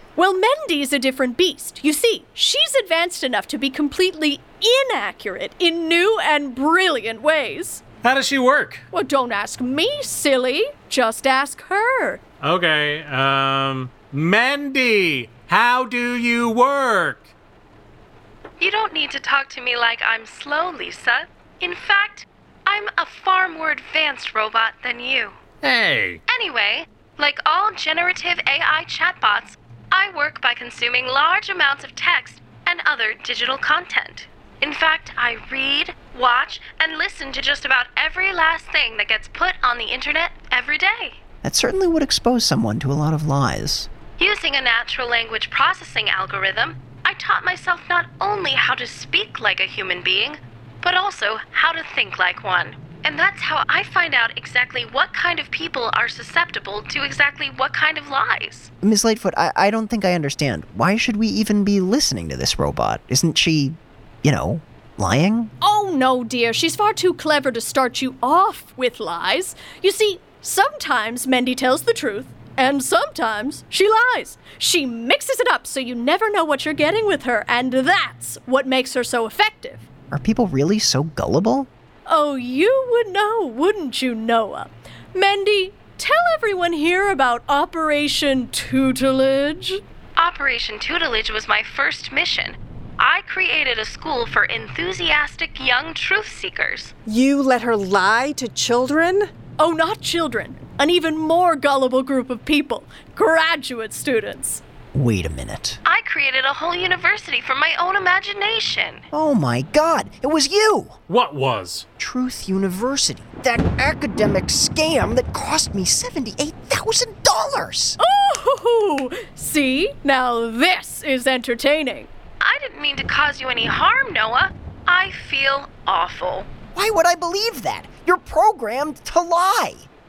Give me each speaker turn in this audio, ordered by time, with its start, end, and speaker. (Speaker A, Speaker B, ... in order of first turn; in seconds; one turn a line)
Speaker A: 0.2-7.8
Speaker B: 8.0-8.8
Speaker A: 8.9-12.2
Speaker B: 12.4-17.2
Speaker C: 18.6-25.4
Speaker B: 25.6-26.2
Speaker C: 26.3-41.2
Speaker D: 41.4-43.9
Speaker C: 44.2-58.7
Speaker D: 58.8-65.5
Speaker A: 65.6-79.8
Speaker D: 80.1-81.7
Speaker A: 82.1-89.8
Speaker C: 90.2-96.9
Speaker E: 97.1-99.3
Speaker A: 99.6-104.6
Speaker D: 104.9-105.8
Speaker C: 105.8-109.0
Speaker D: 109.1-111.0
Speaker B: 111.1-111.8
Speaker D: 112.0-118.0
Speaker A: 118.0-122.1
Speaker C: 122.4-126.5
Speaker D: 126.7-129.9